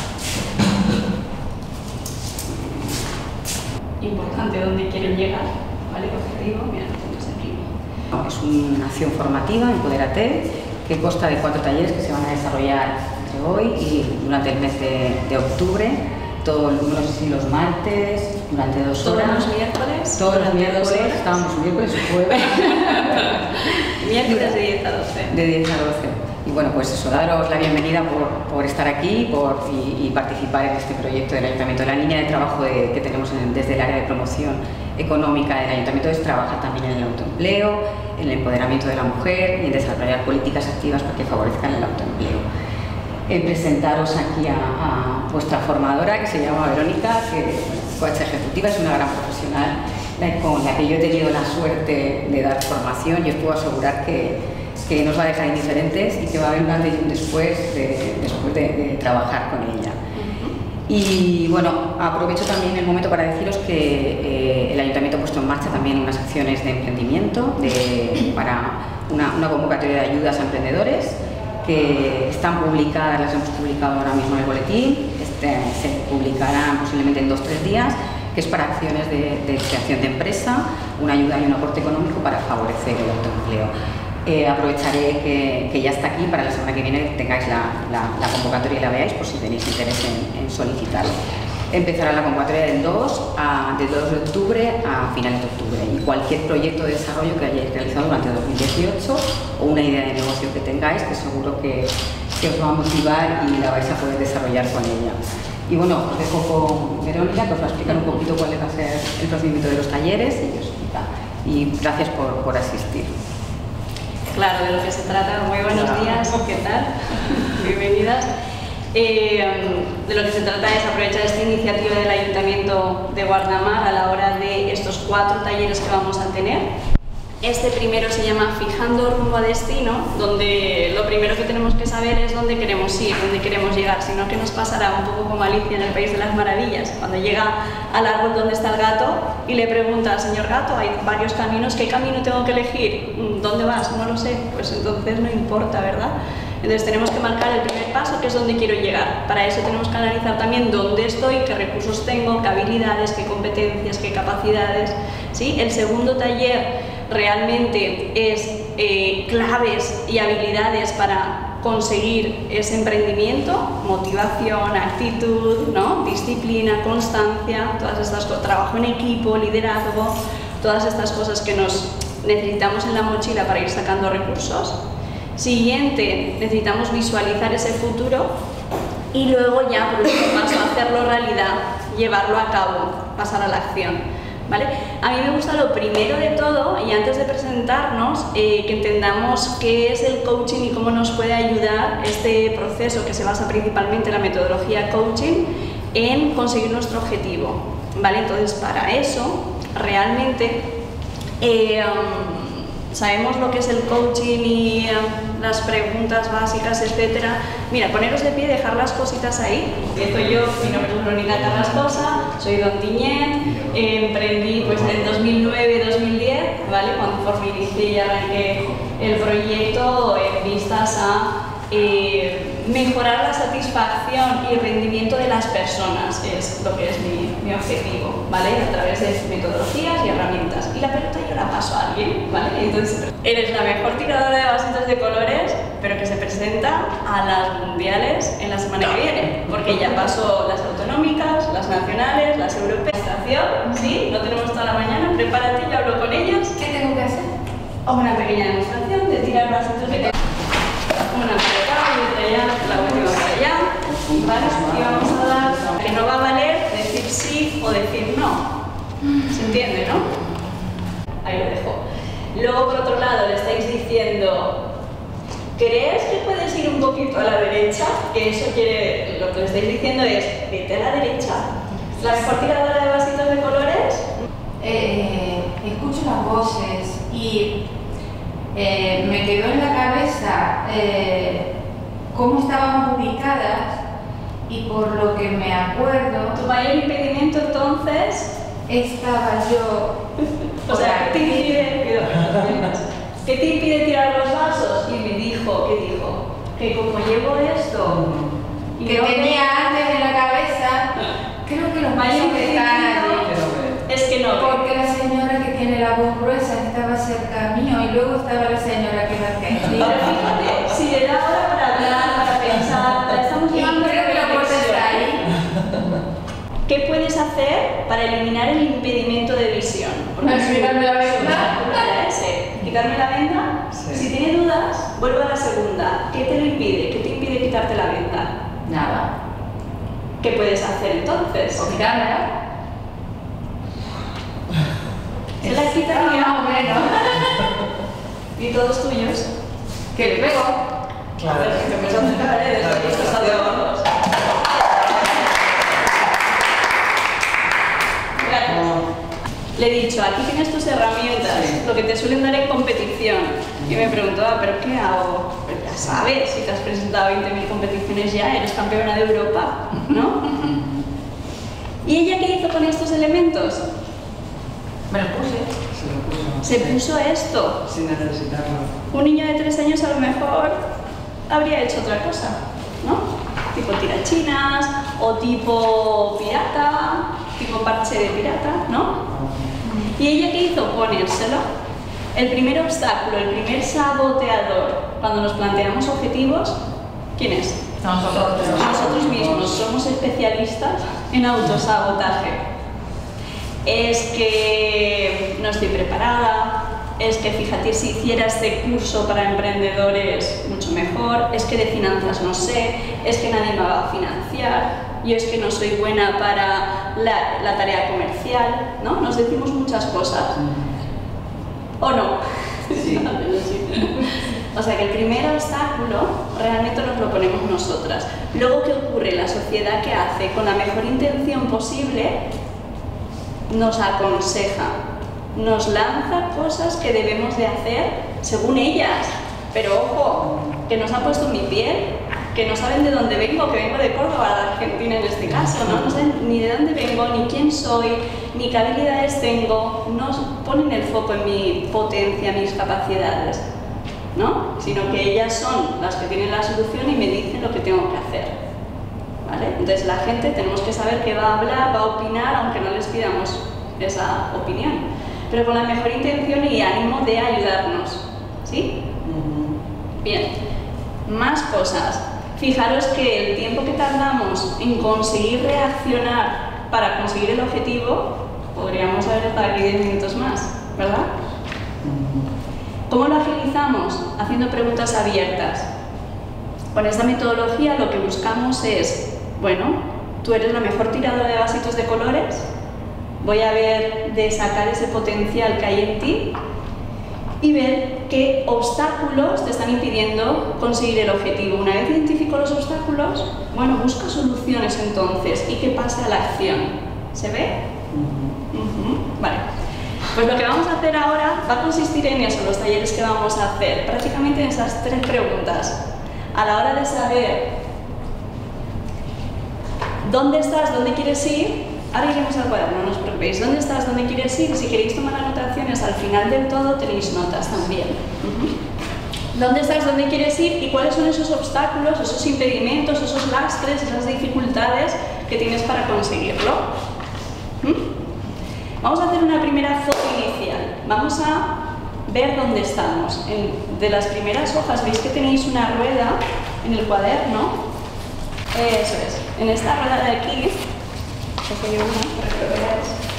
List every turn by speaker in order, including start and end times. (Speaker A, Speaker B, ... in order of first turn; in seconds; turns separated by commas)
Speaker A: 2.6-2.9, Speaker A: 4.0-7.7, Speaker B: 8.1-19.5, Speaker A: 19.0-21.3, Speaker B: 20.2-23.6, Speaker A: 22.4-25.3, Speaker B: 24.1-24.6, Speaker B: 25.3-42.5, Speaker B: 43.3-60.0, Speaker A: 60.1-60.5, Speaker B: 60.9-83.7, Speaker B: 84.2-91.2, Speaker B: 91.7-105.2, Speaker B: 105.7-113.1, Speaker A: 114.3-118.3, Speaker A: 118.9-126.7, Speaker A: 127.4-174.8, Speaker A: 175.4-178.3, Speaker A: 179.1-200.7, Speaker A: 201.4-246.6, Speaker C: 246.6-247.3, Speaker A: 247.8-250.1, Speaker A: 251.1-258.5, Speaker A: 259.2-260.2, Speaker A: 261.2-261.8, Speaker A: 262.3-264.7, Speaker A: 265.6-274.2, Speaker C: 274.6-277.5, Speaker C: 278.5-281.5, Speaker C: 282.1-283.8, Speaker C: 284.5-286.4, Speaker A: 286.3-288.4, Speaker C: 288.7-290.0, Speaker A: 290.6-298.1, Speaker C: 290.7-291.6, Speaker D: 298.0-298.3, Speaker A: 298.8-299.4, Speaker C: 298.8-300.9, Speaker C: 301.4-303.3, Speaker A: 301.9-303.3, Speaker D: 303.2-303.8, Speaker A: 303.8-304.6, Speaker C: 304.3-310.2, Speaker A: 309.6-315.2, Speaker C: 311.8-312.1, Speaker C: 313.5-315.2, Speaker A: 316.7-328.4, Speaker C: 320.2-321.9, Speaker D: 323.7-324.0, Speaker C: 328.7-329.1, Speaker A: 330.2-331.7, Speaker C: 331.6-332.3, Speaker C: 335.4-337.2, Speaker A: 335.4-337.3, Speaker A: 338.4-339.3, Speaker C: 339.9-340.6, Speaker D: 341.2-343.5, Speaker A: 341.2-343.9, Speaker A: 348.1-348.7, Speaker D: 348.5-348.8, Speaker A: 349.6-360.4, Speaker D: 360.4-360.9, Speaker A: 361.8-363.7, Speaker C: 364.9-365.6, Speaker D: 365.6-366.8, Speaker A: 366.4-367.6, Speaker D: 367.6-368.7, Speaker A: 368.9-370.6, Speaker A: 371.3-379.1, Speaker D: 379.1-379.5, Speaker A: 379.8-381.4, Speaker A: 382.1-386.6, Speaker A: 387.2-387.6, Speaker C: 387.8-388.7, Speaker D: 388.3-389.5, Speaker A: 388.3-392.4, Speaker A: 393.6-410.4, Speaker A: 411.8-422.2, Speaker D: 412.8-413.0, Speaker A: 423.5-424.7, Speaker A: 425.3-443.4, Speaker A: 444.1-448.4, Speaker A: 449.2-458.7, Speaker D: 459.0-459.5, Speaker A: 460.0-460.3, Speaker A: 461.1-471.1, Speaker D: 471.8-472.3, Speaker A: 472.9-475.7, Speaker A: 476.7-482.5, Speaker A: 483.2-486.3, Speaker A: 487.4-497.6, Speaker D: 497.9-498.4, Speaker A: 498.5-499.5, Speaker A: 500.1-507.6, Speaker A: 510.0-518.5, Speaker A: 519.3-526.6, Speaker A: 527.6-527.9, Speaker A: 528.8-537.6, Speaker A: 538.5-540.6, Speaker A: 541.4-543.0